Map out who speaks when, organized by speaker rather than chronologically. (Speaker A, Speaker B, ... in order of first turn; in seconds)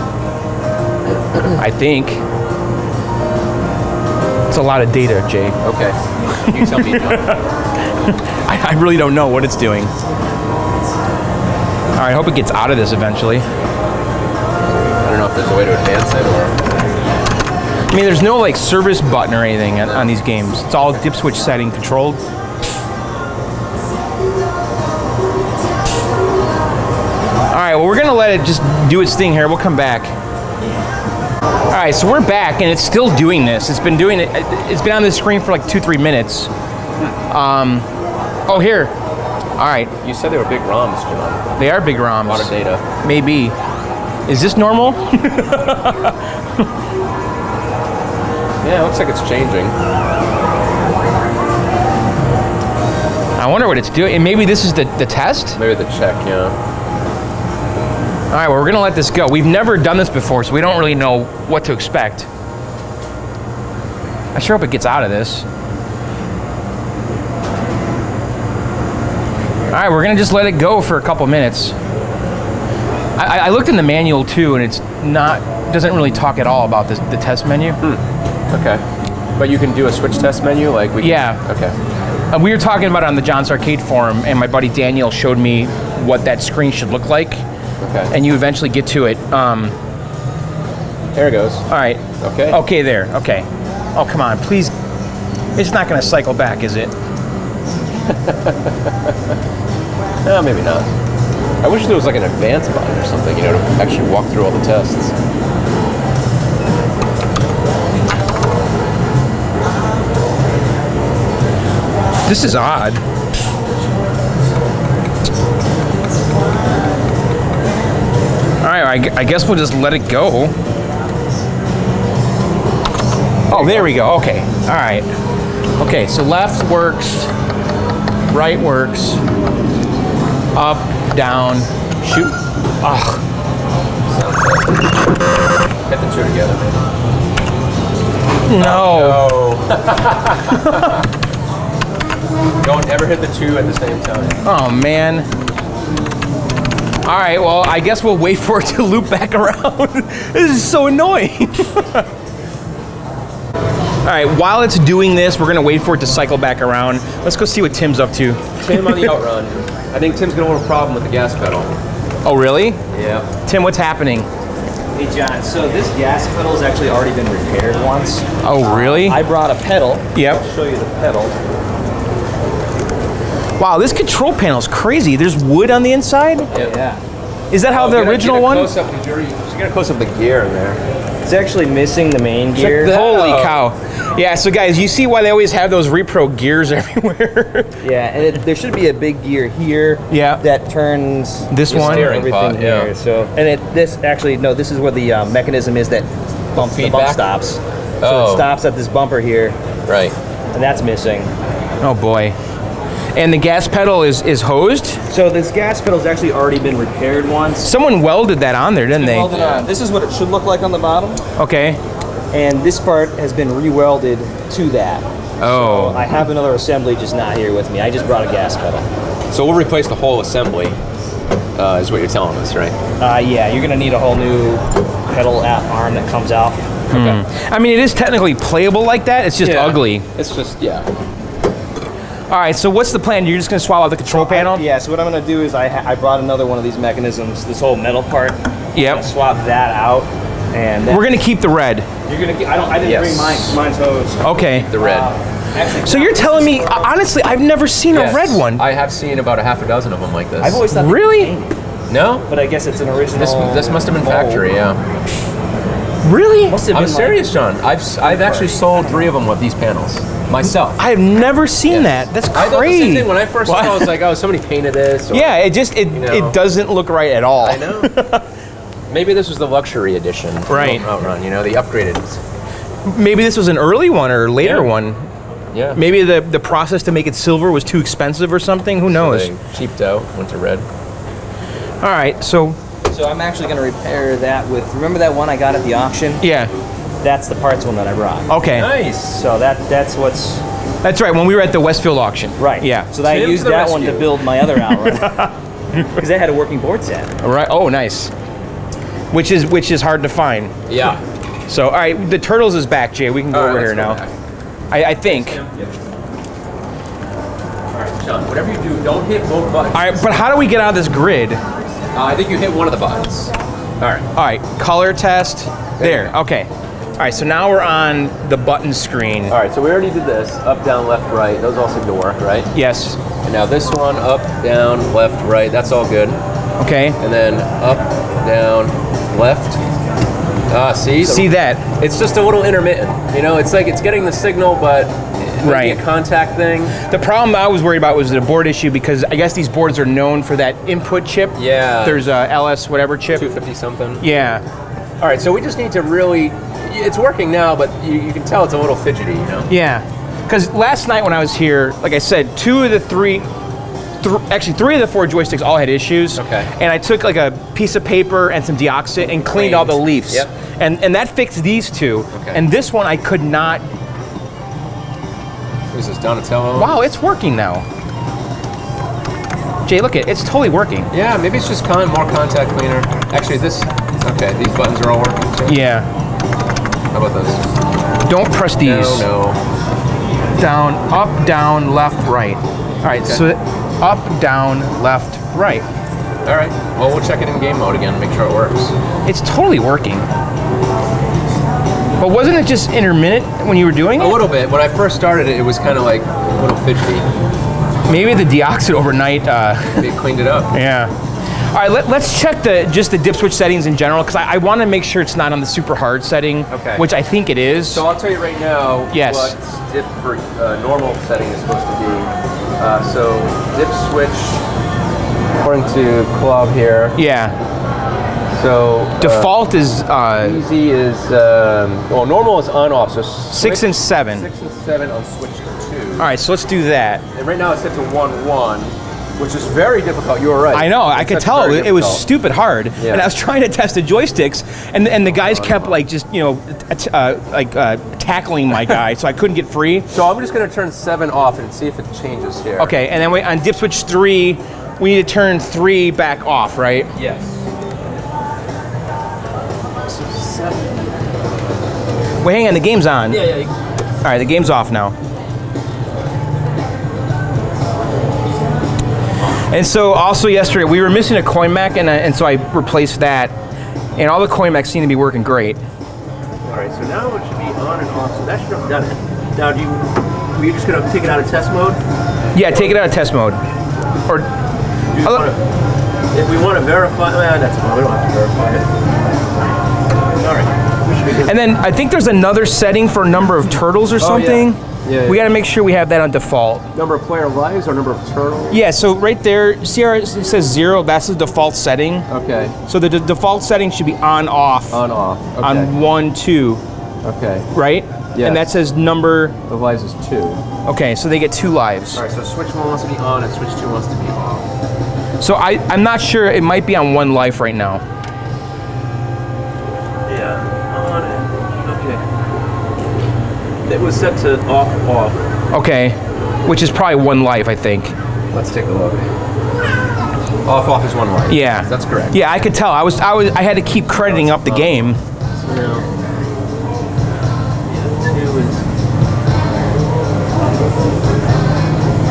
Speaker A: 1.1-1.6, 5.6-7.4, 14.8-16.6, 19.8-20.1, 40.0-41.5, 42.2-42.8, 48.6-49.7, 55.5-56.6, 77.8-78.8, 79.4-81.7, 87.8-88.1, 91.1-91.7, 92.2-92.6, 98.0-99.3, 100.2-100.9, 101.6-105.1, 123.5-124.0, 134.1-134.8, 135.9-136.6, 138.5-141.0, 142.6-144.4, 158.6-161.7, 162.9-163.3, 177.7-180.8, 182.6-183.6, 191.7-192.9, 196.6-197.3, 198.0-198.5, 199.9-200.2, 209.3-209.6, 219.3-220.8, 221.6-222.8, 226.9-227.2, 229.4-230.9, 242.8-243.6, 244.7-245.1, 247.9-250.6, 251.9-252.3, 253.1-254.8, 256.7-260.8, 261.7-266.4, 267.4-267.9, 268.9-272.2, 274.4-274.7, 275.5-275.8, 278.9-280.6, 288.5-289.2, 293.0-294.2, 300.7-301.0, 303.3-304.1, 305.1-305.7, 307.7-310.2, 311.9-314.1, 315.8-316.1, 319.3-322.5, 323.2-326.2, 327.0-329.6, 330.5-336.8, 341.3-342.1, 343.1-344.0, 345.0-349.5, 356.1-356.5, 359.3-360.3, 362.1-362.4, 365.7-366.8, 370.9-375.5, 376.9-377.4, 378.6-379.4, 386.2-388.7, 394.0-397.1, 399.7-400.5, 406.5-406.8, 407.7-414.4, 415.4-417.0, 418.3-419.4, 420.2-426.1, 427.1-432.1, 432.8-433.1, 435.1-435.8, 439.9-442.8, 446.9-447.4, 449.9-450.7, 453.1-453.5, 466.5-471.8, 474.9-475.4, 476.1-478.7, 480.1-481.4, 484.0-485.2, 486.7-488.6, 492.1-492.5, 494.7-495.7, 497.0-497.5, 498.1-498.5, 499.5-500.4, 501.9-504.5, 510.1-512.0, 513.6-515.2, 518.3-519.1, 520.5-522.2, 524.0-524.8, 525.4-525.9, 527.7-528.6
Speaker B: 1.6-2.2, 4.5-5.6, 6.4-7.5, 8.0-9.9, 11.9-13.4, 17.9-22.2, 27.5-30.1, 31.7-36.5, 37.3-37.9, 38.5-38.9, 39.6-39.9, 41.6-43.5, 44.3-46.7, 53.4-55.6, 58.3-62.3, 64.3-65.5, 69.7-71.8, 73.2-77.8, 81.0-81.4, 82.3-87.4, 88.1-89.8, 91.7-94.7, 95.5-96.9, 112.2-113.0, 118.6-120.5, 123.5-125.0, 125.8-127.3, 128.3-129.2, 130.5-133.2, 138.5-139.3, 140.5-140.9, 144.4-145.3, 147.0-152.1, 154.0-159.1, 162.2-162.8, 163.4-164.3, 168.4-169.2, 170.1-170.4, 173.6-176.5, 177.5-178.7, 182.6-187.8, 190.1-190.4, 191.5-192.2, 201.8-202.3, 203.1-205.0, 207.6-209.4, 211.3-211.8, 215.4-216.0, 226.9-230.1, 232.3-234.6, 238.7-239.1, 240.9-241.9, 244.2-244.7, 245.8-248.6, 250.7-251.3, 256.0-256.6, 260.8-264.0, 265.1-268.3, 270.5-270.9, 272.9-275.0, 275.7-279.3, 281.8-282.6, 286.2-286.5, 288.3-288.7, 290.8-292.9, 294.6-295.3, 297.2-298.1, 299.1-300.5, 301.5-304.0, 304.7-305.4, 309.7-311.4, 314.1-319.4, 322.5-323.0, 326.6-327.0, 331.0-331.7, 335.4-335.8, 336.8-343.3, 344.0-344.4, 349.5-353.2, 354.0-363.6, 366.6-367.6, 369.6-370.9, 375.5-375.9, 378.1-379.1, 380.4-385.6, 389.0-390.1, 392.0-394.2, 397.9-399.9, 400.5-400.9, 401.5-407.8, 408.9-409.3, 416.9-417.4, 419.0-420.4, 423.3-424.3, 426.0-427.0, 430.5-439.9, 442.6-446.9, 452.2-453.4, 454.0-454.9, 459.5-463.4, 463.9-465.6, 472.3-473.4, 481.2-486.7, 488.5-492.1, 492.6-494.8, 495.4-496.6, 497.5-499.4, 500.6-502.0, 505.2-507.8, 515.5-517.9, 521.3-525.0
Speaker C: 164.9-171.3, 176.5-177.0, 181.2-182.9, 187.8-199.6, 200.5-201.3, 205.1-207.7, 208.9-211.2, 212.3-218.8, 223.0-226.6, 234.1-241.2, 242.1-246.9, 250.4-251.5, 252.3-254.5, 256.5-257.3, 258.0-258.9, 282.9-286.2, 287.0-288.3, 289.1-290.4, 292.4-295.2, 295.9-297.1